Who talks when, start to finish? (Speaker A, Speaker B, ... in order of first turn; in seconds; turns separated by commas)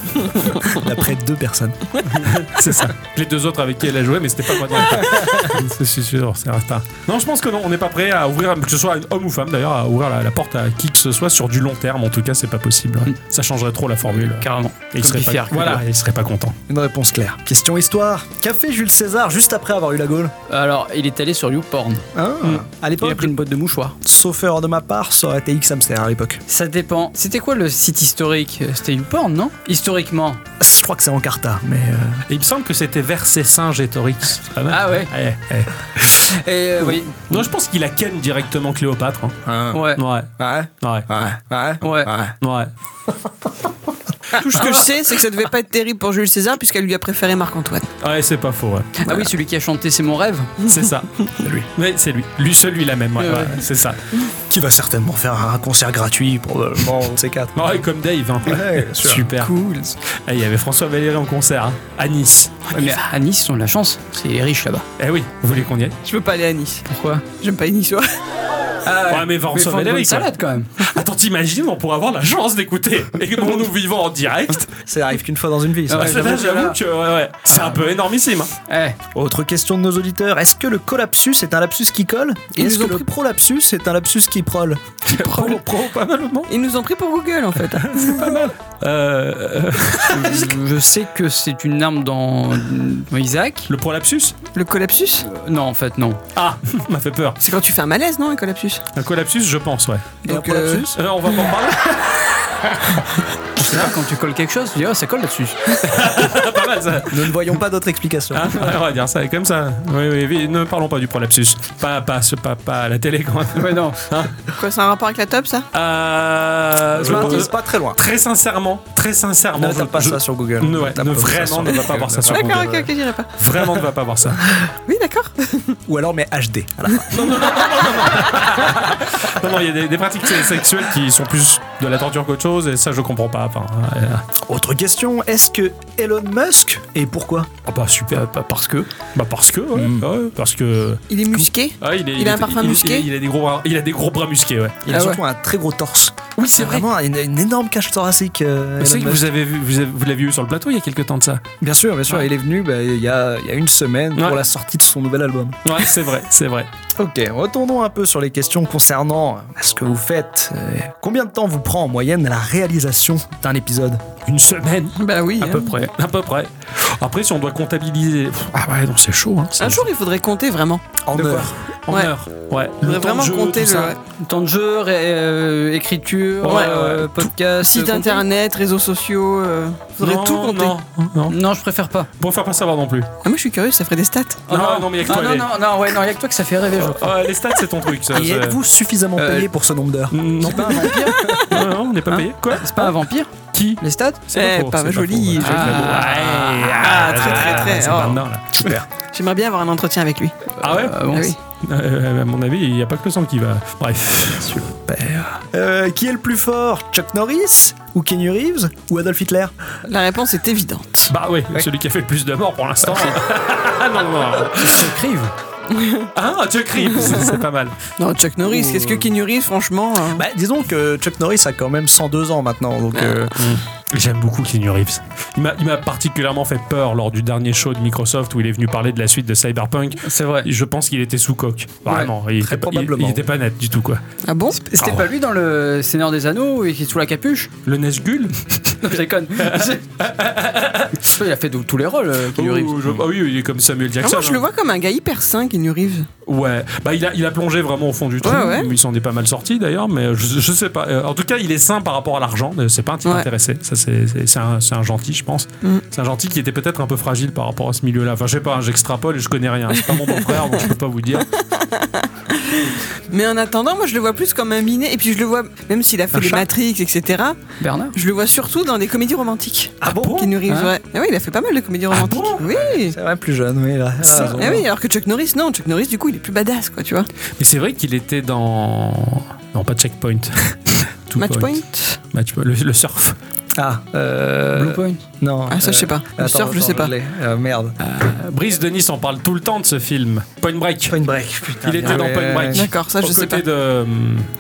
Speaker A: 0.2-0.7, Speaker B: 0.7-1.8, Speaker C: 2.0-16.6, Speaker D: 14.1-15.8, Speaker B: 16.7-20.3, Speaker D: 20.5-22.0, Speaker B: 22.1-23.3, Speaker D: 23.0-23.9, Speaker B: 24.0-26.4, Speaker D: 26.5-30.4, Speaker B: 30.6-32.2, Speaker C: 32.3-36.4, Speaker D: 34.7-35.1, Speaker D: 36.3-37.2, Speaker C: 37.3-39.4, Speaker B: 39.5-39.9, Speaker D: 39.7-40.0, Speaker C: 40.0-41.0, Speaker B: 40.4-42.3, Speaker D: 41.8-42.1, Speaker C: 42.4-42.7, Speaker A: 44.4-47.9, Speaker D: 44.5-44.8, Speaker C: 48.0-49.0, Speaker D: 49.0-50.5, Speaker C: 50.6-51.1, Speaker B: 51.4-51.7, Speaker C: 51.7-54.0, Speaker D: 53.2-53.6, Speaker B: 54.5-57.6, Speaker C: 57.5-59.5, Speaker B: 58.4-59.3, Speaker A: 59.4-60.0, Speaker C: 60.1-62.7, Speaker D: 62.7-64.8, Speaker C: 65.0-66.0, Speaker A: 66.0-68.1, Speaker D: 66.9-67.2, Speaker D: 68.8-70.7, Speaker C: 69.1-74.7, Speaker B: 74.9-76.2, Speaker D: 75.9-76.8, Speaker C: 75.9-78.5, Speaker D: 78.7-79.0, Speaker B: 79.1-84.8, Speaker A: 82.6-83.0, Speaker C: 85.1-86.5, Speaker A: 85.1-85.6, Speaker A: 86.5-88.5, Speaker C: 87.8-90.5, Speaker D: 90.1-93.7, Speaker C: 93.7-94.3, Speaker A: 94.5-95.2, Speaker D: 95.2-96.2, Speaker C: 96.3-97.4, Speaker A: 97.4-98.8, Speaker C: 98.9-100.2, Speaker A: 100.2-100.9, Speaker B: 100.2-101.0, Speaker C: 100.9-103.0, Speaker D: 103.5-105.8, Speaker C: 105.8-107.4, Speaker B: 107.1-108.7, Speaker C: 108.3-114.3, Speaker D: 113.5-114.0, Speaker A: 114.5-115.7, Speaker C: 115.7-124.4, Speaker B: 116.9-118.0, Speaker B: 119.5-122.8, Speaker A: 122.3-123.3, Speaker A: 124.8-125.8, Speaker B: 125.9-127.3, Speaker C: 127.1-134.2, Speaker B: 134.4-137.5, Speaker C: 137.7-138.3, Speaker D: 138.1-138.9, Speaker C: 139.1-144.9, Speaker B: 139.7-140.1, Speaker A: 141.1-143.1, Speaker B: 144.8-149.2, Speaker A: 144.9-145.2, Speaker C: 146.4-146.8, Speaker C: 148.8-151.4, Speaker B: 151.6-155.7, Speaker C: 155.6-156.7, Speaker B: 157.0-164.0, Speaker C: 164.2-165.0, Speaker A: 165.0-165.7, Speaker D: 165.4-165.9, Speaker C: 165.9-169.9, Speaker A: 169.6-171.0, Speaker B: 171.0-171.5, Speaker C: 171.1-173.9, Speaker A: 172.8-174.0, Speaker D: 174.2-178.2, Speaker C: 176.4-177.3, Speaker A: 176.4-177.0, Speaker A: 177.6-180.7, Speaker C: 180.0-181.3, Speaker D: 181.3-182.1, Speaker C: 182.2-183.1, Speaker A: 183.2-184.4, Speaker D: 184.5-187.1, Speaker C: 184.5-185.5, Speaker C: 186.8-188.6, Speaker B: 188.1-191.4, Speaker D: 189.2-189.5, Speaker C: 190.1-191.0, Speaker D: 190.5-191.2, Speaker A: 191.0-191.4, Speaker C: 191.5-192.9, Speaker D: 192.1-194.2, Speaker C: 193.5-198.6, Speaker A: 194.3-198.2, Speaker D: 195.4-196.5, Speaker B: 198.5-198.9, Speaker A: 199.1-200.4, Speaker D: 200.6-201.3, Speaker C: 200.6-201.0, Speaker A: 201.1-201.3, Speaker C: 201.6-204.6, Speaker B: 204.6-209.5, Speaker A: 209.8-211.1, Speaker C: 211.1-214.9, Speaker D: 214.6-215.3, Speaker A: 215.7-216.1, Speaker C: 216.1-217.8, Speaker A: 217.0-217.2, Speaker A: 218.0-220.2, Speaker D: 218.4-219.0, Speaker B: 220.1-223.4, Speaker C: 223.3-234.0, Speaker D: 230.0-230.5, Speaker B: 232.4-233.2, Speaker A: 234.2-234.6, Speaker D: 234.5-237.5, Speaker C: 234.8-235.0, Speaker C: 237.6-241.1, Speaker D: 238.8-239.8, Speaker D: 241.0-242.8, Speaker C: 242.3-244.4, Speaker A: 244.0-246.1, Speaker C: 246.2-261.3, Speaker A: 248.2-248.7, Speaker A: 259.9-260.6, Speaker A: 261.4-267.4, Speaker C: 266.1-266.4, Speaker D: 267.6-267.9, Speaker A: 267.9-272.9, Speaker C: 269.8-270.3, Speaker D: 270.5-270.7, Speaker C: 271.9-272.4, Speaker B: 272.4-274.7, Speaker A: 274.1-277.1, Speaker C: 277.4-281.6, Speaker A: 281.2-282.0, Speaker C: 282.1-283.2, Speaker B: 283.5-287.8, Speaker D: 284.5-285.0, Speaker A: 285.5-286.9, Speaker C: 287.8-291.0, Speaker B: 290.9-292.7, Speaker C: 291.6-294.3, Speaker A: 292.5-293.4